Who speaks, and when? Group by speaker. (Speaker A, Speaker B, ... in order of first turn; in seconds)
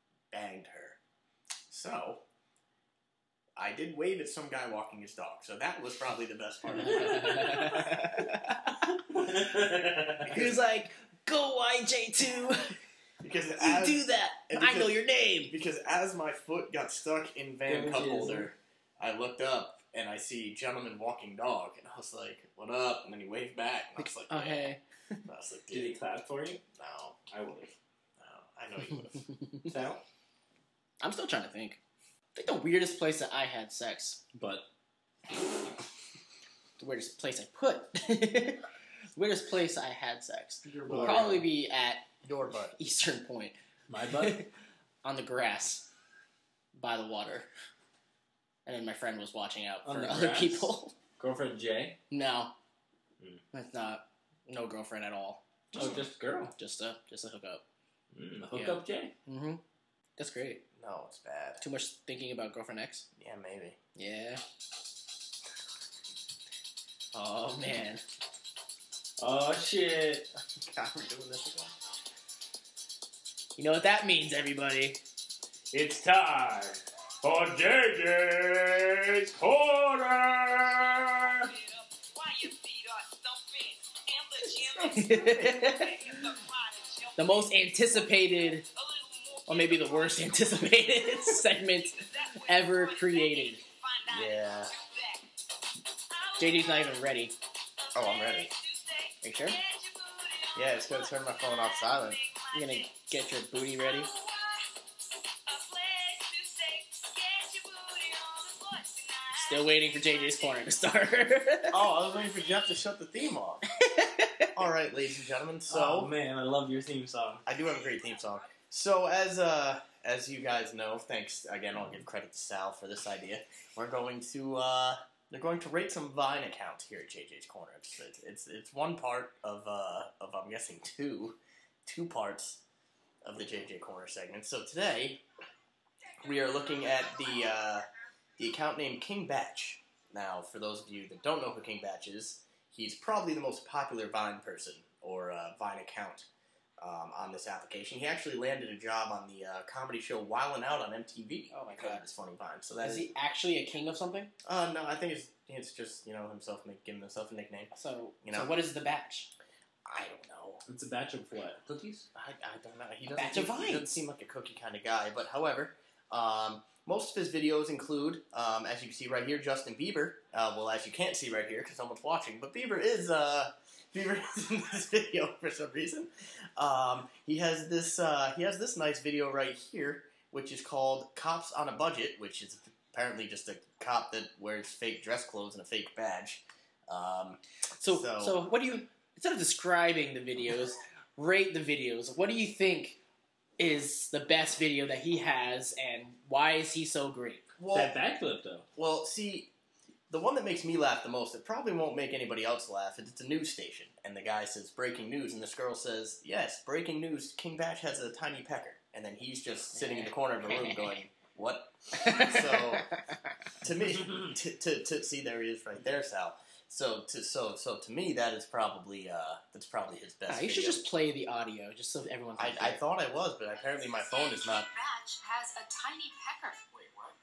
Speaker A: 0.3-1.0, 1.7-2.2, 3.5-7.8, 10.3-10.6, 13.2-24.7, 25.2-26.0, 26.8-27.2, 28.2-29.2, 40.7-41.5, 42.2-42.8, 60.8-61.6, 63.2-63.8, 70.6-71.7, 85.1-85.6, 94.1-94.7, 97.9-98.5, 100.5-102.2, 111.7-113.6, 114.5-116.1, 117.5-132.6, 133.2-135.2, 136.2-137.9, 138.4-146.3, 146.8-153.1, 154.4-157.7, 158.2-158.5, 159.8-160.6, 162.1-188.4, 197.6-197.9, 198.8-199.5, 200.1-212.9, 213.6-220.9, 222.3-224.7
Speaker B: 7.1-8.6, 10.2-12.8, 13.6-15.5, 24.0-24.8, 31.0-31.8, 32.3-34.2, 36.8-38.6, 39.1-42.1, 42.8-43.5, 44.1-44.5, 45.0-45.9, 46.7-47.5, 48.6-50.9, 52.1-52.5, 53.5-57.6, 58.5-59.6, 60.2-60.6, 61.6-63.1, 64.0-64.4, 67.1-68.0, 73.5-75.0, 84.8-86.1, 87.2-88.6, 89.5-93.6, 96.4-97.3, 99.2-99.6, 102.5-104.1, 109.3-111.8, 113.7-114.5, 151.5-152.1, 152.8-154.3, 157.7-159.3, 163.1-164.0, 187.8-193.0, 193.6-197.4, 209.7-211.0, 212.0-212.6, 220.3-222.8
Speaker C: 9.1-10.3, 17.6-18.5, 25.7-26.6, 27.3-27.7, 29.7-30.0, 34.3-34.7, 40.8-41.4, 43.9-44.4, 49.8-52.0, 55.7-56.5, 58.1-59.1, 69.2-70.3, 75.7-81.5, 115.7-117.4, 160.7-162.1, 197.7-198.7
Speaker D: 81.4-91.3, 92.0-95.3, 96.1-97.0, 97.8-103.1, 103.8-111.3, 112.1-112.5, 223.6-226.9